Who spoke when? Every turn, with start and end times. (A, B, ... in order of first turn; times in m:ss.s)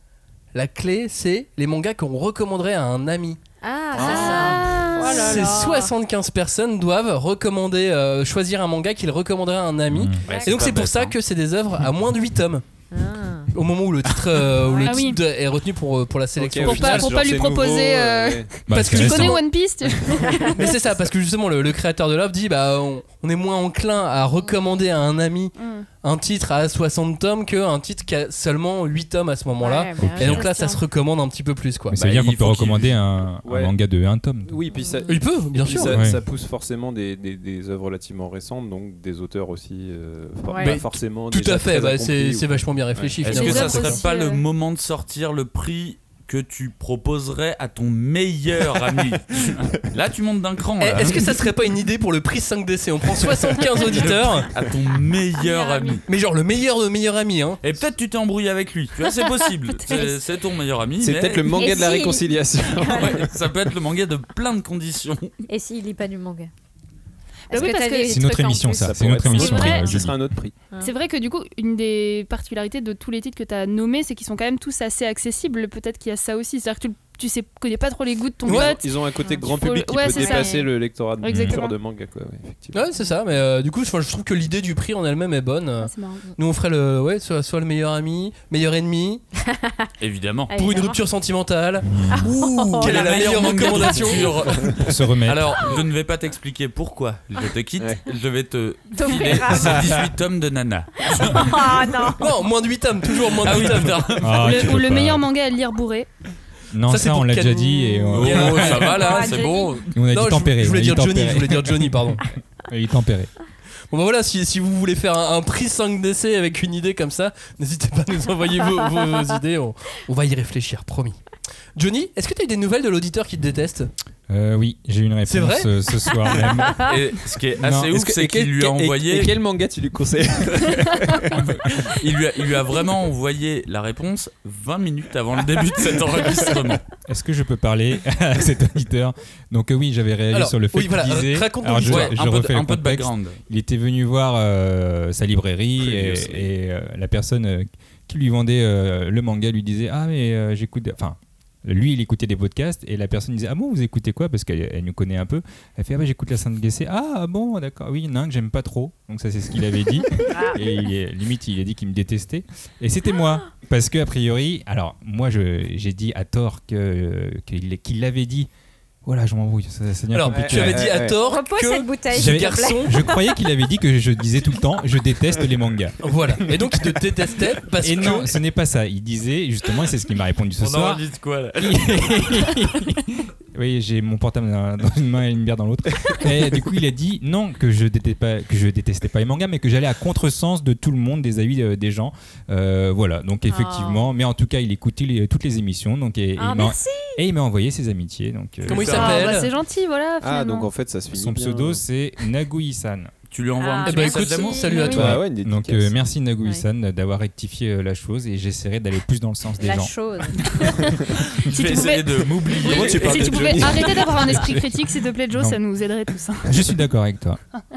0:00.5-0:03.4 A
0:03.6-0:05.9 B
0:03.9-0:04.9 C
0:04.0-0:12.6 A
0:04.7-0:05.4 D
0:09.9-0:10.2 E
0:10.2-0:11.2 C
0:12.9-0:13.5 B
0:13.5-0:17.1 A
0:14.8-0:15.2 D
0:16.4-0:18.6 F
0:16.6-0:20.8 D
0:18.7-0:19.4 E
0:18.7-0:19.4 A
0:20.3-0:32.0 A
0:25.6-0:25.9 D
0:29.6-0:30.8 B
0:30.0-0:30.4 E
0:31.9-0:34.6 E
0:32.0-0:32.9 C
0:33.4-0:33.7 F
0:34.4-0:43.4 F
0:34.7-0:35.2 B
0:35.1-0:36.0 A
0:35.9-0:36.2 E
0:40.5-0:40.8 B
0:40.6-0:44.0 A
0:43.2-0:51.4 C
0:43.3-0:44.4 D
0:49.4-0:49.7 F
0:50.8-0:54.5 A
0:53.7-0:56.0 C
0:53.8-0:54.1 F
0:55.4-0:56.0 D
0:56.0-0:57.6 A
0:57.6-1:01.5 C
1:01.0-1:03.3 F
1:01.5-1:03.2 B
1:02.8-1:05.3 C
1:05.5-1:06.5 B
1:07.5-1:08.3 D
1:07.5-1:09.8 B
1:08.1-1:10.2 E
1:08.7-1:10.5 F
1:09.3-1:09.9 D
1:10.8-1:20.6 D
1:18.4-1:22.8 F
1:20.1-1:20.7 B
1:21.2-1:21.7 D
1:21.3-1:21.6 E
1:22.7-1:29.2 A
1:25.8-1:26.3 D
1:29.5-1:29.9 B
1:30.0-1:30.5 C
1:30.5-1:31.0 B
1:30.5-1:34.4 A
1:31.8-1:32.3 E
1:32.2-1:34.5 B
1:32.2-1:41.9 C
1:34.4-1:34.7 F
1:34.8-1:35.6 E
1:37.8-1:38.0 F
1:38.9-1:39.9 B
1:39.5-1:39.8 F
1:41.0-1:42.2 B
1:42.2-1:44.1 A
1:43.4-1:44.7 C
1:44.2-1:45.2 E
1:44.3-1:46.1 D
1:46.7-1:48.9 E
1:46.9-1:49.5 A
1:47.7-1:49.8 B
1:48.1-1:49.9 C
1:49.9-1:53.3 E
1:50.1-1:52.2 A
1:53.9-2:01.2 A
2:01.8-2:03.9 A
2:04.3-2:07.0 E
2:05.2-2:05.7 A
2:06.8-2:09.4 C
2:07.6-2:07.9 E
2:07.9-2:11.4 F
2:11.3-2:16.8 C
2:17.1-2:48.5 E
2:20.3-2:22.2 A
2:21.8-2:23.4 C
2:25.8-2:26.5 F
2:40.3-2:40.6 B
2:49.0-2:51.0 E
2:50.1-2:53.0 A
2:50.3-2:51.2 F
2:51.2-2:53.4 B
2:52.1-2:56.0 E
2:56.0-2:58.3 A
2:57.8-3:01.0 E
3:00.6-3:02.6 C
3:01.6-3:19.3 E
3:13.5-3:14.1 B
3:16.4-3:17.2 B
3:18.6-3:19.5 A
3:18.7-3:19.2 C
3:18.9-3:20.7 D
3:20.2-3:21.8 F
3:21.1-3:23.1 E
3:23.3-3:24.9 C
3:23.6-3:25.1 B
3:23.8-3:25.2 A
3:24.9-3:26.0 F
3:24.9-3:29.9 E
3:29.6-3:30.5 B
3:30.4-3:36.6 D
3:31.4-3:34.0 C
3:32.6-3:34.4 F
3:34.2-3:34.8 E
3:35.3-3:35.6 E
3:36.4-3:37.4 E